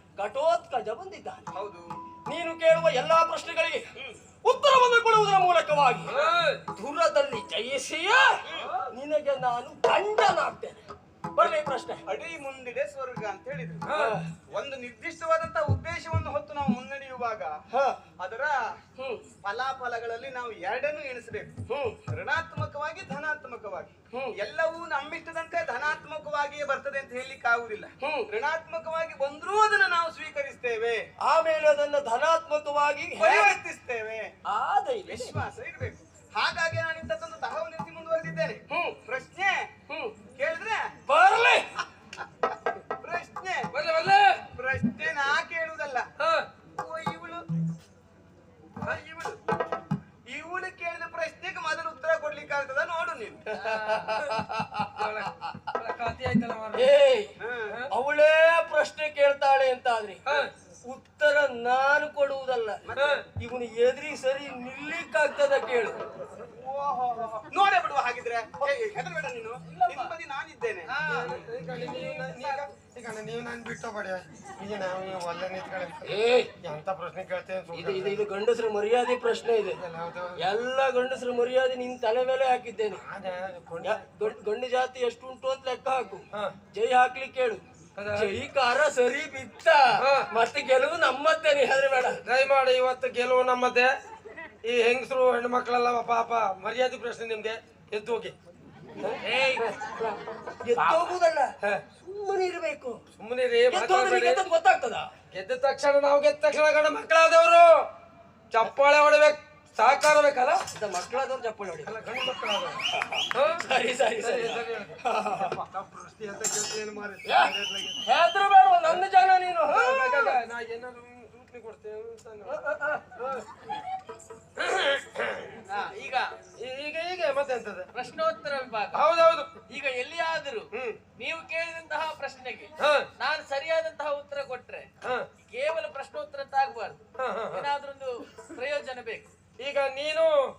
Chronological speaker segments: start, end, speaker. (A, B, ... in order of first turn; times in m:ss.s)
0:00.2-0:01.4 A
0:01.6-0:01.9 B
0:02.3-0:03.8 A
0:04.4-0:06.1 A
0:06.1-0:06.6 C
0:06.1-0:06.4 B
0:06.7-0:08.4 A
0:08.5-0:08.7 B
0:08.6-0:08.9 C
0:08.9-0:10.8 A
0:11.3-0:12.0 A
0:12.1-0:13.9 B
0:13.9-0:14.2 C
0:13.9-0:14.3 A
0:14.5-0:17.6 B
0:17.7-0:18.0 A
0:18.2-0:18.8 B
0:19.0-0:19.3 A
0:19.4-0:21.5 B
0:21.7-0:22.0 A
0:22.1-0:31.1 B
0:28.0-0:28.3 A
0:31.2-0:33.6 A
0:33.2-0:34.3 B
0:34.5-0:35.4 A
0:35.1-0:39.7 B
0:38.7-0:39.0 A
0:39.9-0:40.2 A
0:40.4-0:40.9 B
0:41.1-0:41.7 A
0:43.0-0:43.7 B
0:43.7-0:44.4 C
0:44.6-0:46.1 B
0:46.2-0:46.5 C
0:46.8-0:47.4 B
0:48.8-0:49.4 C
0:50.3-0:53.4 B
0:53.5-0:55.3 A
0:53.7-0:54.0 D
0:54.0-0:54.3 C
0:54.8-0:56.9 C
0:56.8-0:57.3 A
0:57.4-0:57.8 B
0:57.9-1:00.2 A
1:00.3-1:00.5 C
1:00.9-1:02.8 A
1:02.9-1:03.2 B
1:03.0-1:03.2 C
1:03.4-1:06.0 A
1:06.5-1:11.0 B
1:09.8-1:10.1 D
1:10.9-1:12.7 D
1:11.1-1:18.3 C
1:16.0-1:16.5 A
1:17.7-1:19.8 A
1:19.8-1:20.5 C
1:20.4-1:23.0 A
1:22.9-1:24.4 C
1:23.8-1:27.6 A
1:28.0-1:28.4 C
1:28.1-1:32.2 A
1:30.0-1:30.3 C
1:32.2-1:33.9 C
1:34.6-1:38.3 C
1:39.0-1:40.1 C
1:39.2-1:39.7 D
1:40.6-1:43.0 A
1:40.8-1:41.8 C
1:43.2-1:44.4 C
1:43.7-1:45.1 A
1:45.3-1:47.7 C
1:48.5-1:50.6 C
1:50.7-1:52.1 A
1:51.8-1:52.8 C
1:52.9-1:55.6 A
1:53.3-1:53.6 C
1:54.2-1:58.0 C
1:57.2-2:00.4 A
1:59.7-2:03.4 C
2:02.5-2:03.2 A
2:04.6-2:05.6 C
2:05.7-2:06.3 D
2:06.6-2:07.9 C
2:07.9-2:09.0 D
2:08.9-2:09.5 C
2:09.7-2:14.9 D
2:12.8-2:13.1 C
2:15.4-2:17.0 D
2:17.2-2:17.7 C
2:17.5-2:19.3 D
2:19.6-2:20.3 C